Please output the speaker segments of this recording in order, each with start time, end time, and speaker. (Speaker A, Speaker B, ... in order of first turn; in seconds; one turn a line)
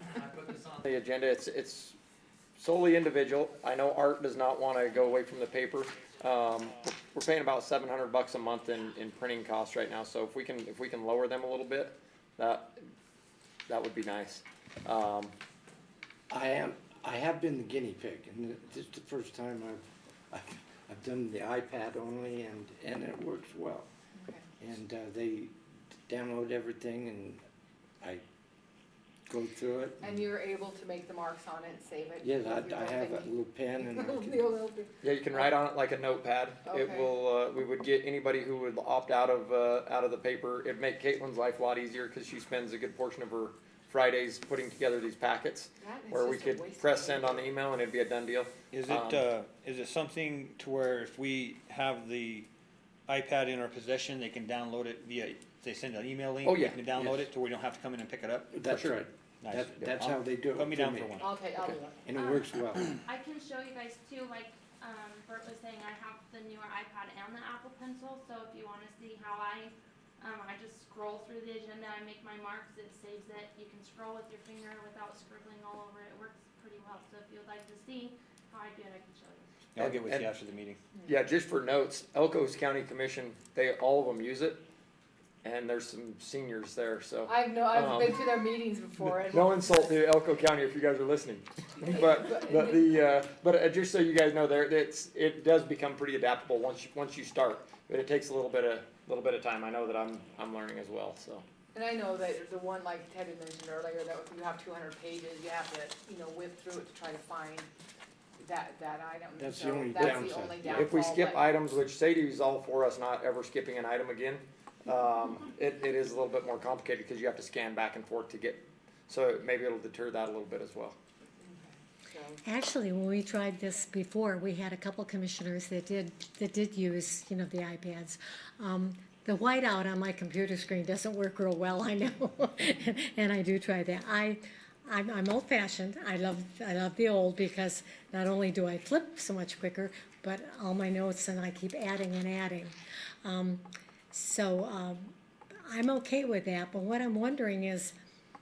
Speaker A: 0.8-2.0
Speaker A: 2.6-12.7
Speaker A: 13.7-15.3
Speaker B: 16.3-23.9
Speaker C: 24.1-24.4
Speaker B: 24.6-27.4
Speaker B: 29.3-30.2
Speaker C: 30.0-33.3
Speaker B: 32.2-34.4
Speaker C: 33.9-35.5
Speaker A: 35.0-49.3
Speaker C: 36.6-37.1
Speaker C: 45.8-47.5
Speaker D: 48.7-52.5
Speaker D: 53.1-61.8
Speaker A: 56.4-56.8
Speaker B: 56.9-57.3
Speaker B: 58.5-61.2
Speaker A: 58.7-59.0
Speaker C: 61.2-62.0
Speaker B: 62.0-62.9
Speaker E: 62.1-79.5
Speaker D: 79.7-80.8
Speaker A: 79.8-80.3
Speaker A: 81.0-84.6
Speaker A: 85.4-88.2
Speaker C: 87.3-89.9
Speaker A: 89.3-101.4
Speaker C: 91.9-92.8
Speaker C: 101.7-107.7
Speaker C: 108.4-111.5
Speaker B: 109.4-110.9
Speaker A: 110.7-121.0
Speaker C: 121.4-122.4
Speaker F: 122.4-145.1
Speaker F: 145.7-147.9